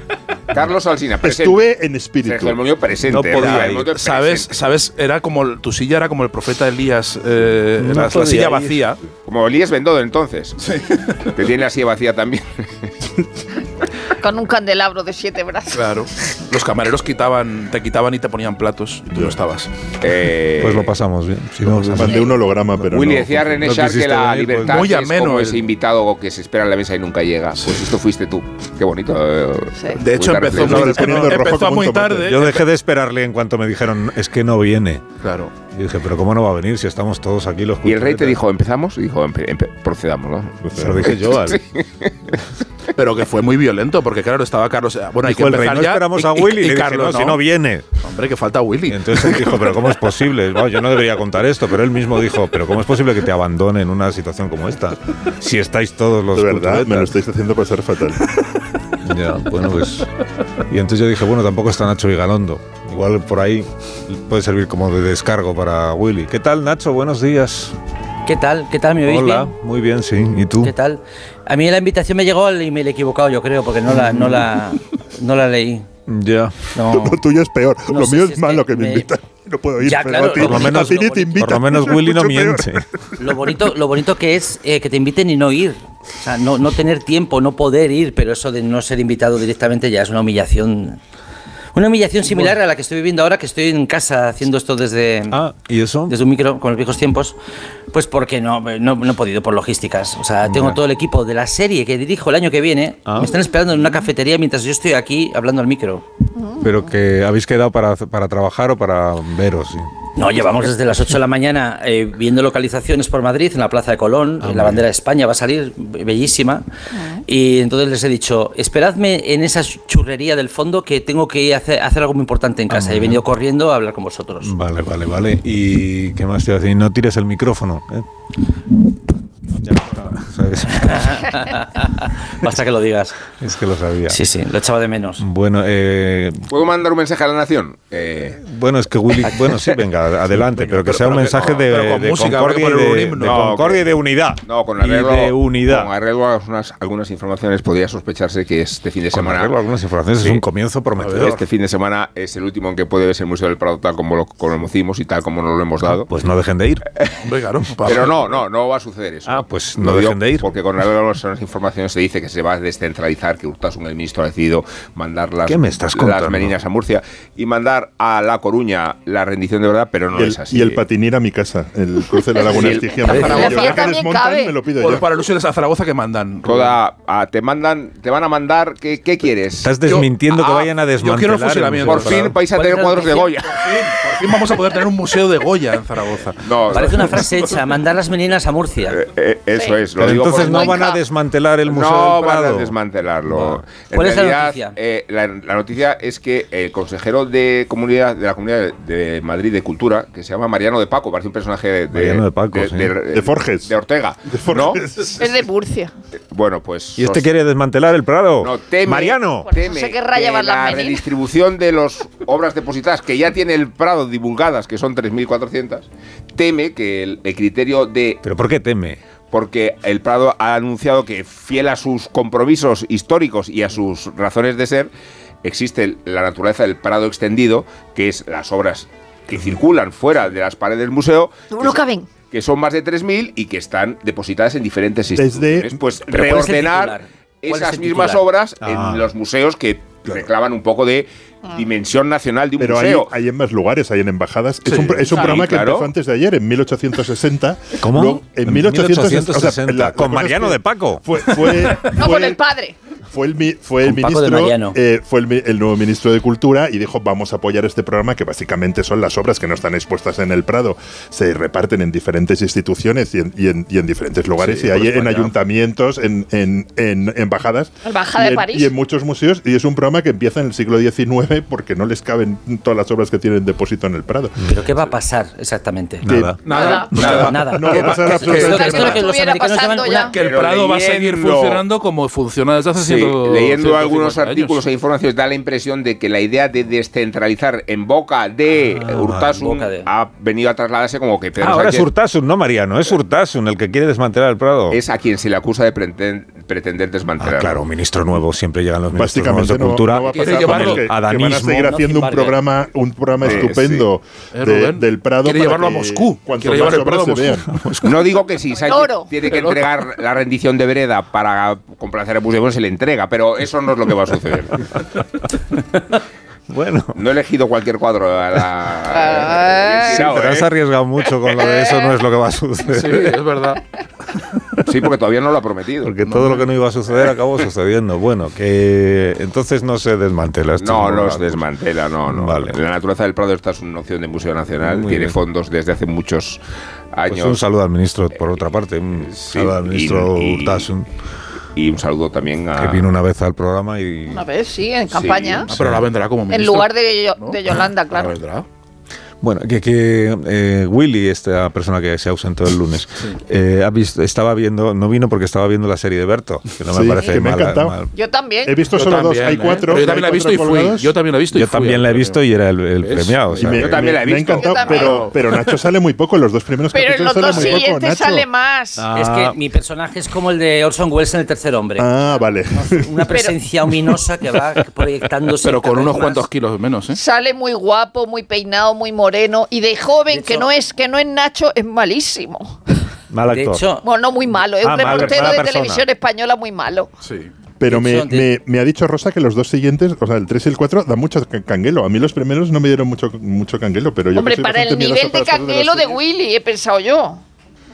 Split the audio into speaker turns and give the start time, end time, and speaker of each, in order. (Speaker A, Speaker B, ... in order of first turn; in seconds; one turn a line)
Speaker A: 0.5-1.7
Speaker B: 1.2-2.6
Speaker A: 2.2-4.6
Speaker C: 3.0-4.0
Speaker D: 3.3-9.0
Speaker C: 7.8-8.8
Speaker A: 9.3-12.9
Speaker D: 10.6-11.1
Speaker E: 14.2-15.9
Speaker D: 15.7-19.7
Speaker A: 20.0-20.9
Speaker C: 20.6-22.4
Speaker B: 21.7-23.6
Speaker A: 22.8-31.2
Speaker C: 23.6-24.9
Speaker D: 24.6-25.7
Speaker E: 29.8-30.0
Speaker D: 29.9-32.6
Speaker B: 30.6-32.3
Speaker C: 30.8-31.3
Speaker C: 32.2-35.1
Speaker D: 35.2-35.5
Speaker C: 35.7-38.4
Speaker A: 37.8-42.4
Speaker B: 40.6-41.2
Speaker C: 40.7-41.6
Speaker D: 43.0-47.4
Speaker C: 45.2-48.0
Speaker D: 48.0-49.9
Speaker C: 48.9-57.1
Speaker B: 56.3-58.2
Speaker C: 59.0-67.8
Speaker F: 68.3-69.5
Speaker C: 69.0-70.7
Speaker F: 70.6-75.9
Speaker C: 73.9-74.6
Speaker C: 76.1-76.6
Speaker F: 76.7-77.2
Speaker B: 76.9-83.2
Speaker F: 77.9-79.1
Speaker F: 79.8-81.6
Speaker C: 80.4-82.9
Speaker F: 83.2-91.0
Speaker F: 91.7-95.4
Speaker C: 95.3-96.2
Speaker F: 96.1-97.4
Speaker F: 97.9-106.0
Speaker C: 100.4-100.8
Speaker C: 103.1-103.3
Speaker E: 106.4-106.9
Speaker C: 106.6-109.9
Speaker F: 110.2-116.6
Speaker C: 114.4-114.9
Speaker E: 116.9-117.2
Speaker F: 117.3-124.5
Speaker C: 122.7-123.2
Speaker C: 124.4-128.1
Speaker C: 129.5-131.4
Speaker F: 130.8-133.2
Speaker C: 133.4-134.2
Speaker F: 134.1-135.2
Speaker C: 135.2-136.5
Speaker A: 136.5-138.4
Speaker C: 138.4-145.9
Speaker A: 139.2-139.7
Speaker D: 140.7-143.5
Speaker A: 143.2-143.8
Speaker A: 144.5-149.6
Speaker C: 149.1-151.5
Speaker D: 151.0-151.3
Speaker A: 151.0-156.1
Speaker C: 155.8-156.9
Speaker D: 157.2-158.2
Speaker A: 157.8-170.8
Speaker C: 159.3-160.5
Speaker C: 165.4-166.6
Speaker B: 170.2-175.1
Speaker A: 172.4-173.4
Speaker D: 172.5-173.9
Speaker E: 172.6-174.6
Speaker D: 174.8-176.8
Speaker A: 176.4-179.7
Speaker C: 179.6-182.4
Speaker D: 179.9-182.3
Speaker A: 181.8-183.7
Speaker F: 182.5-183.4
Speaker D: 183.5-187.7
Speaker A: 186.4-187.2
Speaker F: 186.7-189.0
Speaker A: 188.9-190.9
Speaker E: 189.6-191.0
Speaker C: 190.0-192.7
Speaker A: 191.7-204.8
Speaker F: 193.8-194.8
Speaker C: 201.9-203.0
Speaker B: 203.1-203.7
Speaker B: 204.3-205.3
Speaker E: 205.2-205.9
Speaker A: 206.3-207.3
Speaker C: 207.0-209.5
Speaker A: 208.4-218.2
Speaker E: 209.5-211.1
Speaker C: 218.2-219.0
Speaker A: 219.3-224.9
Speaker A: 225.4-231.8
Speaker E: 231.5-232.1
Speaker A: 232.3-243.1
Speaker B: 235.2-235.8
Speaker F: 236.1-238.2
Speaker C: 238.6-239.1
Speaker B: 242.6-252.4
Speaker D: 244.7-245.2
Speaker A: 245.1-245.9
Speaker E: 245.1-245.5
Speaker C: 247.8-251.2
Speaker E: 251.9-252.8
Speaker B: 253.1-274.4
Speaker F: 253.8-254.8
Speaker C: 264.5-265.3
Speaker E: 267.8-268.7
Speaker F: 274.5-276.1
Speaker C: 276.0-276.4
Speaker B: 276.1-279.1
Speaker D: 276.4-278.6
Speaker E: 276.5-277.0
Speaker F: 276.6-280.1
Speaker A: 277.0-277.3
Speaker E: 278.2-280.2
Speaker D: 279.8-284.6
Speaker A: 280.1-281.6
Speaker A: 282.8-291.9
Speaker C: 288.7-289.4
Speaker F: 289.3-289.9
Speaker C: 291.4-294.8
Speaker A: 294.7-297.6
Speaker C: 297.2-301.8
Speaker B: 298.9-307.6
Speaker D: 300.0-300.9
Speaker F: 301.6-302.4
Speaker A: 303.2-303.9
Speaker C: 303.2-303.5
Speaker D: 304.3-307.4
Speaker C: 307.5-308.1
Speaker A: 307.8-314.8
Speaker E: 308.5-309.1
Speaker D: 309.4-309.6
Speaker C: 316.5-317.0
Speaker A: 316.9-320.5
Speaker E: 318.9-320.1
Speaker C: 319.9-323.2
Speaker E: 321.5-321.8
Speaker D: 322.7-323.6
Speaker A: 324.6-326.0
Speaker C: 325.8-331.5
Speaker D: 326.1-326.4
Speaker A: 330.6-336.4
Speaker C: 332.1-332.6
Speaker C: 334.6-335.2
Speaker A: 336.9-337.4
Speaker C: 337.1-340.9
Speaker A: 339.1-340.7
Speaker A: 341.6-342.9
Speaker C: 342.6-344.3
Speaker E: 344.1-345.5
Speaker A: 344.9-345.5
Speaker D: 345.5-348.5
Speaker C: 345.5-345.9
Speaker E: 346.3-348.2
Speaker C: 349.2-357.9
Speaker B: 356.7-357.8
Speaker E: 357.9-358.6
Speaker B: 358.4-360.9
Speaker D: 358.7-362.2
Speaker C: 361.3-363.9
Speaker D: 362.8-363.4
Speaker B: 363.4-368.3
Speaker A: 363.4-364.9
Speaker E: 364.2-365.1
Speaker D: 364.8-365.2
Speaker E: 366.7-368.9
Speaker C: 368.8-369.4
Speaker F: 368.9-371.9
Speaker B: 371.8-373.0
Speaker F: 372.5-376.2
Speaker E: 373.1-373.4
Speaker D: 375.4-377.0
Speaker E: 376.9-382.6
Speaker F: 380.1-380.5
Speaker C: 383.1-383.6
Speaker F: 383.3-383.9
Speaker E: 383.8-386.9
Speaker C: 384.6-385.9
Speaker D: 387.0-387.3
Speaker B: 387.6-396.0
Speaker F: 387.7-388.3
Speaker E: 394.1-397.2